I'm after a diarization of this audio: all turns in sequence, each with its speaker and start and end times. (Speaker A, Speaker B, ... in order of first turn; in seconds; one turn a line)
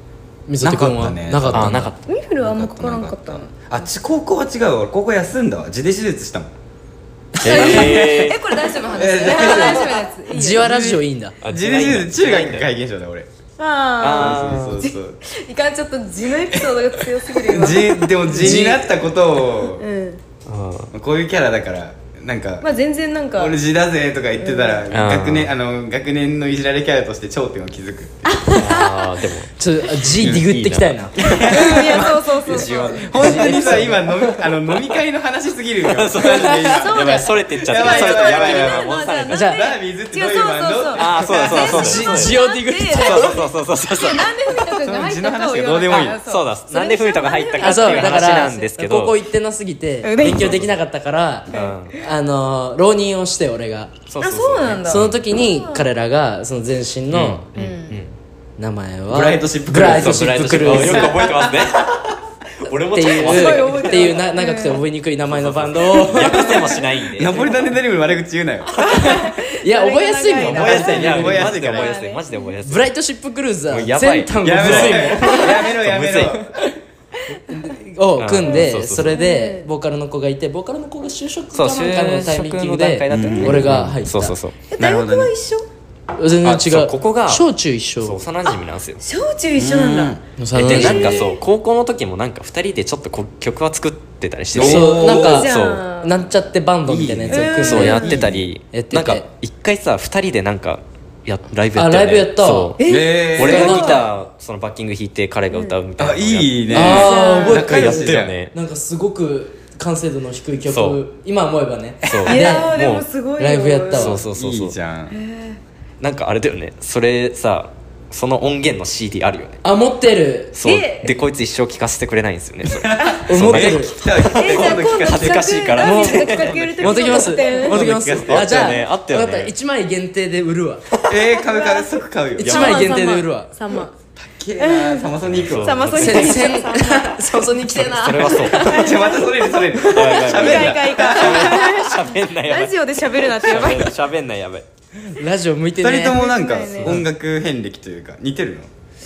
Speaker A: 0.5-1.9
Speaker B: 0.6-6.5
Speaker C: 1.5-1.9
Speaker D: 2.1-3.5
Speaker B: 7.3-10.0
Speaker C: 7.4-8.4
Speaker D: 7.4-11.0
Speaker A: 10.3-11.4
Speaker C: 11.4-12.7
Speaker B: 11.5-13.3
Speaker D: 13.6-18.6
Speaker C: 14.0-14.8
Speaker B: 14.1-15.2
Speaker B: 17.4-19.8
Speaker A: 18.3-18.9
Speaker D: 19.6-20.2
Speaker C: 20.5-20.9
Speaker B: 20.9-22.7
Speaker D: 22.6-23.6
Speaker B: 23.4-28.5
Speaker D: 24.4-24.8
Speaker C: 24.9-25.5
Speaker D: 28.2-29.3
Speaker C: 28.6-31.4
Speaker A: 29.6-31.8
Speaker B: 30.2-30.5
Speaker B: 31.2-41.9
Speaker D: 31.4-33.4
Speaker C: 32.5-35.0
Speaker A: 33.2-34.1
Speaker C: 35.9-39.5
Speaker D: 36.2-48.7
Speaker A: 39.3-39.6
Speaker C: 41.0-42.4
Speaker A: 41.5-43.5
Speaker C: 42.9-44.4
Speaker B: 44.8-46.2
Speaker C: 46.2-49.2
Speaker A: 47.6-54.0
Speaker D: 50.0-50.6
Speaker C: 50.2-50.7
Speaker C: 51.5-52.0
Speaker D: 51.5-52.0
Speaker C: 54.1-55.2
Speaker D: 54.2-55.9
Speaker A: 54.9-57.5
Speaker C: 57.1-58.2
Speaker D: 57.6-58.0
Speaker A: 58.6-61.2
Speaker B: 59.1-62.1
Speaker C: 59.8-62.0
Speaker C: 62.6-64.1
Speaker A: 62.9-66.7
Speaker D: 63.1-64.8
Speaker C: 65.3-67.5
Speaker B: 66.2-68.8
Speaker D: 66.2-66.8
Speaker A: 68.8-71.5
Speaker D: 68.8-72.5
Speaker C: 70.4-72.9
Speaker B: 70.5-71.9
Speaker A: 72.6-75.6
Speaker C: 73.7-76.4
Speaker B: 74.4-76.6
Speaker A: 77.5-84.4
Speaker C: 78.2-79.2
Speaker D: 78.5-79.7
Speaker C: 81.5-84.6
Speaker B: 83.1-83.8
Speaker D: 84.7-85.7
Speaker B: 84.8-85.3
Speaker A: 86.2-88.2
Speaker C: 86.4-89.0
Speaker D: 88.5-91.4
Speaker B: 89.5-90.2
Speaker A: 90.4-91.2
Speaker C: 90.5-95.8
Speaker B: 94.5-95.5
Speaker A: 94.6-99.3
Speaker D: 94.8-96.2
Speaker B: 96.9-98.4
Speaker D: 97.3-98.2
Speaker C: 97.6-108.5
Speaker A: 101.8-102.8
Speaker D: 102.8-104.1
Speaker B: 102.8-104.0
Speaker A: 103.4-104.0
Speaker D: 105.5-105.8
Speaker B: 106.0-108.4
Speaker A: 106.7-112.8
Speaker D: 106.8-107.7
Speaker C: 110.7-111.0
Speaker C: 112.0-113.0
Speaker D: 112.3-114.2
Speaker A: 113.4-114.2
Speaker C: 113.9-114.8
Speaker B: 114.3-115.2
Speaker D: 115.1-115.6
Speaker C: 116.0-119.6
Speaker A: 119.6-120.6
Speaker C: 120.5-129.5
Speaker D: 120.6-121.2
Speaker B: 122.7-125.8
Speaker D: 123.0-123.2
Speaker A: 123.3-124.0
Speaker D: 124.2-127.8
Speaker A: 125.8-126.3
Speaker A: 126.8-131.0
Speaker B: 127.7-128.8
Speaker B: 131.1-132.8
Speaker D: 131.5-131.9
Speaker A: 132.4-133.6
Speaker D: 132.4-133.9
Speaker B: 134.2-136.3
Speaker D: 134.6-137.5
Speaker C: 135.3-136.5
Speaker A: 135.9-138.7
Speaker C: 137.7-138.9
Speaker D: 138.2-144.0
Speaker B: 138.6-141.9
Speaker C: 139.9-144.7
Speaker A: 145.0-146.2
Speaker B: 145.8-148.7
Speaker D: 146.1-147.0